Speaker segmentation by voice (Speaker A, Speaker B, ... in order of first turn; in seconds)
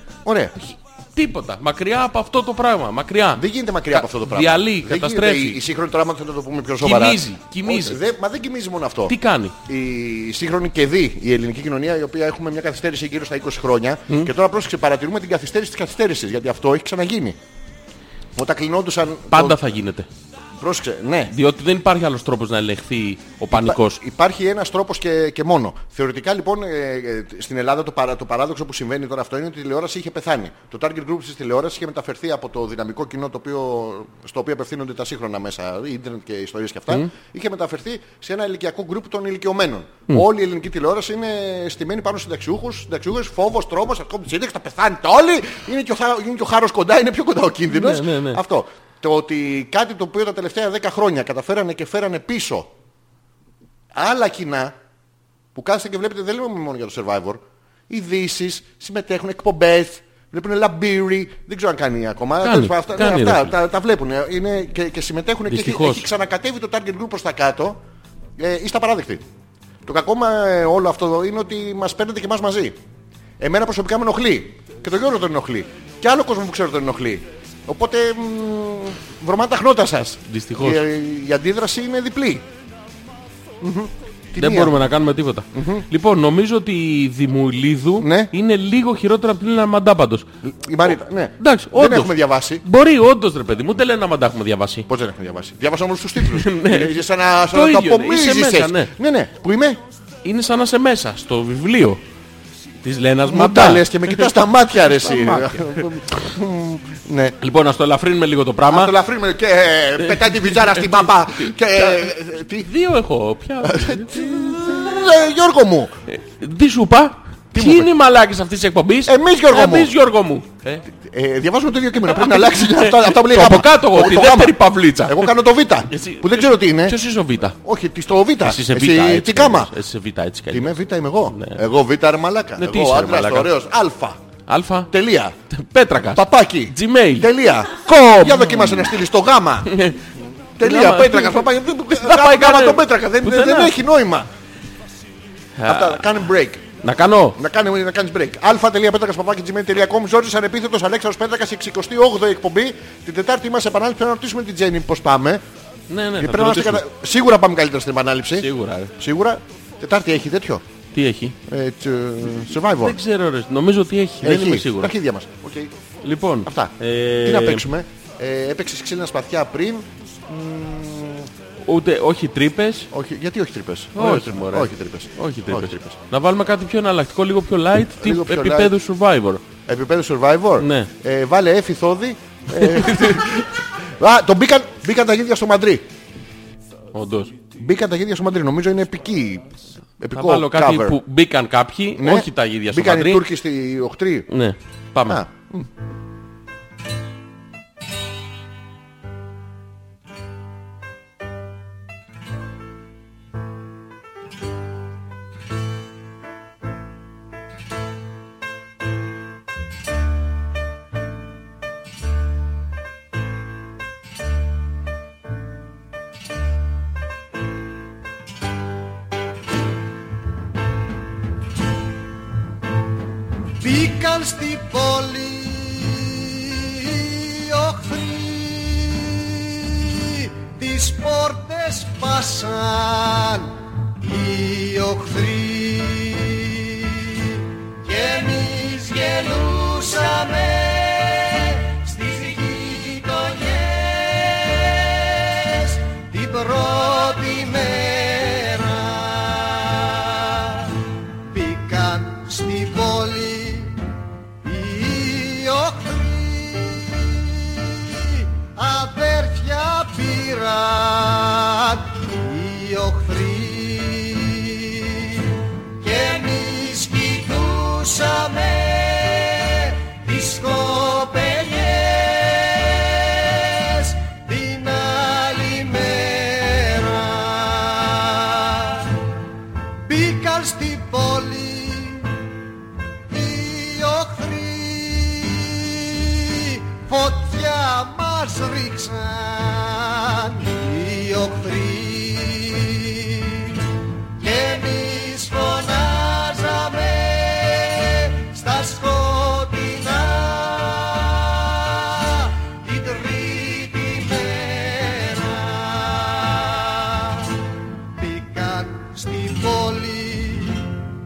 Speaker A: 0.2-0.5, 3.4-9.1, 9.7-17.4, 18.4-19.6, 20.6-21.3, 23.5-52.7, 53.9-54.7, 55.5-67.8, 68.4-69.2, 69.8-72.8, 73.4-82.4, 83.6-84.7, 85.5-85.8, 88.0-88.3, 90.4-92.6, 94.9-99.8, 103.2-107.4, 108.7-112.7, 113.6-115.9, 117.5-117.9, 119.0-119.9, 120.9-127.0, 127.6-129.7, 130.5-134.2, 134.9-135.3, 136.0-139.7, 140.6-144.3, 145.6-146.6, 147.3-155.4, 156.2-160.6, 161.5-163.0, 164.2-165.7, 166.4-171.3, 172.9-176.0, 177.9-178.7, 179.7-185.8, 187.6-191.0, 191.9-194.3, 195.1-195.7
Speaker B: 0.7-5.6, 6.8-8.0, 9.1-9.5, 19.3-20.1, 21.3-24.0, 47.7-48.4, 62.4-63.5, 65.5-66.1, 80.2-80.8, 84.4-90.3, 91.4-94.9, 96.2-98.9, 100.2-102.0, 102.8-105.8, 107.4-108.9, 110.0-114.9, 116.1-120.8, 122.1-125.3, 125.9-127.6, 128.4-131.6, 132.6-133.5, 134.5-134.9, 135.5-137.3, 138.2-138.9, 139.7-140.0, 140.6-143.8, 145.6-146.2, 146.8-147.4, 155.9-156.8, 158.3-158.9, 160.9-161.3, 162.8-164.9, 166.0-167.7, 171.6-172.9, 173.9-179.4, 180.6-180.9, 182.6-183.4, 186.9-187.3, 190.1-193.2, 194.3-195.2
Speaker C: 223.6-253.9, 254.4-279.0, 279.8-282.2, 283.1-310.8